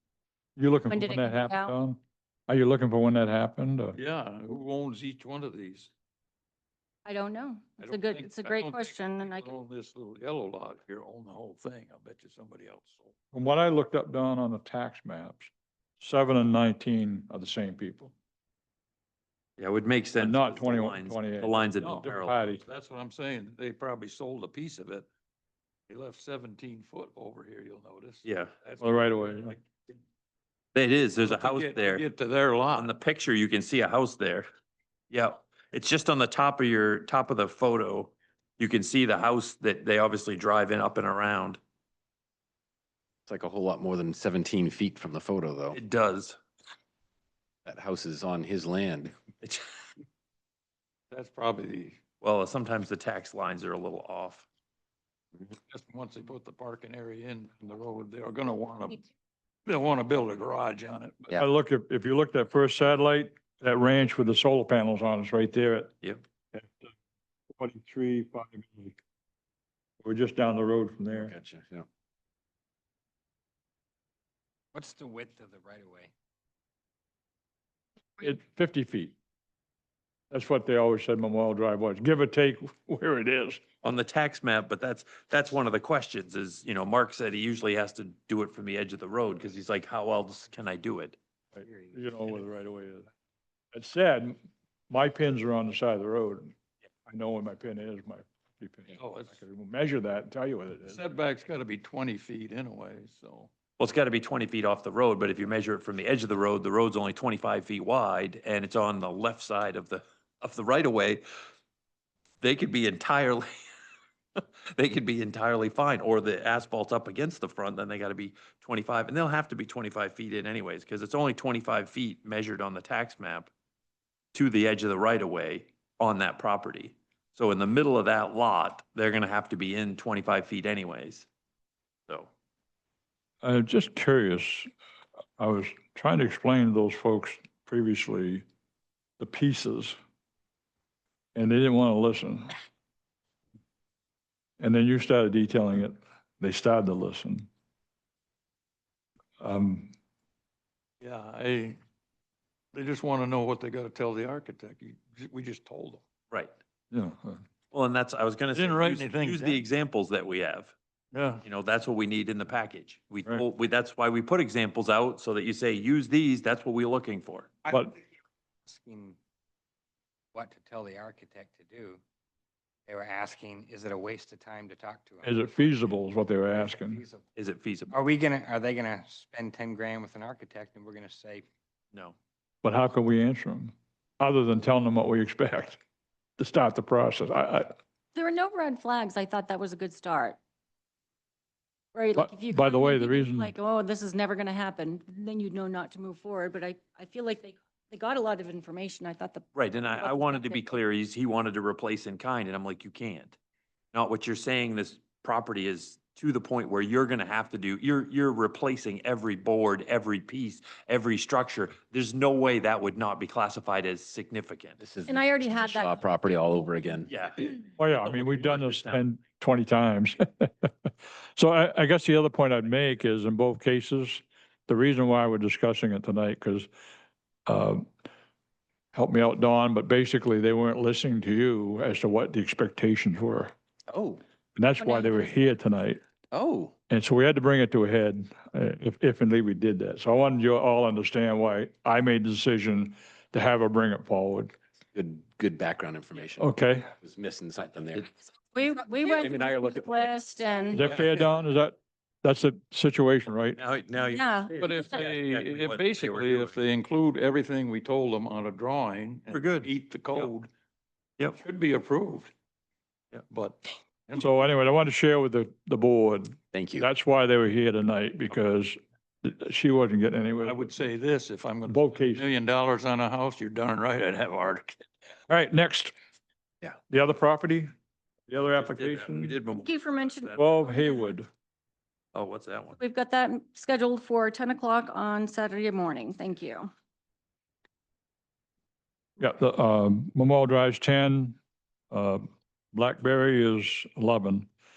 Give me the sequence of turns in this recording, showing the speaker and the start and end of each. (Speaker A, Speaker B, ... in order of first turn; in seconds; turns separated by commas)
Speaker A: 0.6-4.0, Speaker B: 0.9-1.7, Speaker C: 3.9-5.9, Speaker B: 7.0-9.5, Speaker C: 7.8-13.1, Speaker A: 13.3-18.1, Speaker D: 19.6-22.5, Speaker A: 20.2-22.6, Speaker C: 21.8-22.1, Speaker C: 22.6-25.1, Speaker C: 25.9-29.5, Speaker D: 28.2-28.5, Speaker A: 28.8-29.6, Speaker D: 30.7-32.0, Speaker C: 31.2-32.9, Speaker D: 32.7-34.5, Speaker D: 35.1-41.6, Speaker E: 43.3-45.8, Speaker D: 45.7-46.4, Speaker E: 47.6-49.1, Speaker C: 51.1-52.0, Speaker D: 52.2-54.5, Speaker C: 55.5-59.0, Speaker C: 59.6-61.3, Speaker A: 61.3-65.9, Speaker A: 66.5-66.9, Speaker A: 67.5-69.0, Speaker A: 70.0-71.3, Speaker E: 71.2-71.8, Speaker F: 74.7-76.1, Speaker A: 78.2-79.1, Speaker A: 80.3-83.6, Speaker D: 83.8-91.2, Speaker A: 91.5-93.1, Speaker F: 91.6-92.0, Speaker A: 93.7-94.4, Speaker A: 94.9-96.5, Speaker A: 97.0-101.0, Speaker C: 98.9-99.4, Speaker C: 100.8-103.5, Speaker D: 103.8-111.2, Speaker D: 112.4-113.5, Speaker D: 114.4-123.5, Speaker D: 124.3-131.3, Speaker A: 133.4-134.7, Speaker A: 135.4-138.4, Speaker A: 139.2-140.0, Speaker A: 141.3-142.5, Speaker A: 144.6-147.5, Speaker A: 149.4-149.9, Speaker C: 151.0-151.8, Speaker C: 152.7-156.0, Speaker A: 156.9-157.4, Speaker D: 157.7-160.7, Speaker C: 158.5-159.6, Speaker C: 161.1-161.4, Speaker D: 161.4-167.5, Speaker A: 167.7-167.9, Speaker F: 168.7-169.2, Speaker F: 170.3-172.0, Speaker F: 172.9-175.4, Speaker A: 175.2-177.0, Speaker F: 176.6-177.2, Speaker D: 177.3-178.0, Speaker F: 177.9-181.4, Speaker A: 182.6-185.8, Speaker A: 186.4-187.7, Speaker B: 188.1-190.4, Speaker B: 191.9-200.7, Speaker A: 192.2-193.5, Speaker D: 199.5-203.3, Speaker D: 203.9-214.8, Speaker E: 214.8-217.2, Speaker B: 215.1-216.0, Speaker D: 217.1-219.0, Speaker A: 217.8-226.7, Speaker A: 227.5-227.8, Speaker A: 228.9-233.5, Speaker E: 233.9-234.2, Speaker A: 234.6-236.0, Speaker B: 234.8-235.3, Speaker E: 236.3-236.7, Speaker A: 236.9-244.5, Speaker E: 244.9-246.4, Speaker A: 246.4-246.9, Speaker E: 247.0-248.1, Speaker B: 248.4-250.9, Speaker E: 249.2-249.8, Speaker A: 250.7-253.6, Speaker D: 253.6-256.6, Speaker B: 254.1-254.5, Speaker C: 254.5-260.5, Speaker D: 259.3-260.3, Speaker C: 261.3-262.3, Speaker C: 263.3-264.3, Speaker A: 264.2-270.8, Speaker E: 266.5-266.9, Speaker C: 270.4-274.8, Speaker A: 271.7-272.2, Speaker A: 275.3-275.9, Speaker A: 276.9-277.7, Speaker A: 278.3-279.4, Speaker D: 278.5-280.4, Speaker B: 279.6-281.1, Speaker A: 280.4-281.3, Speaker D: 282.1-282.8, Speaker B: 282.7-286.7, Speaker A: 289.2-291.4, Speaker A: 291.9-294.5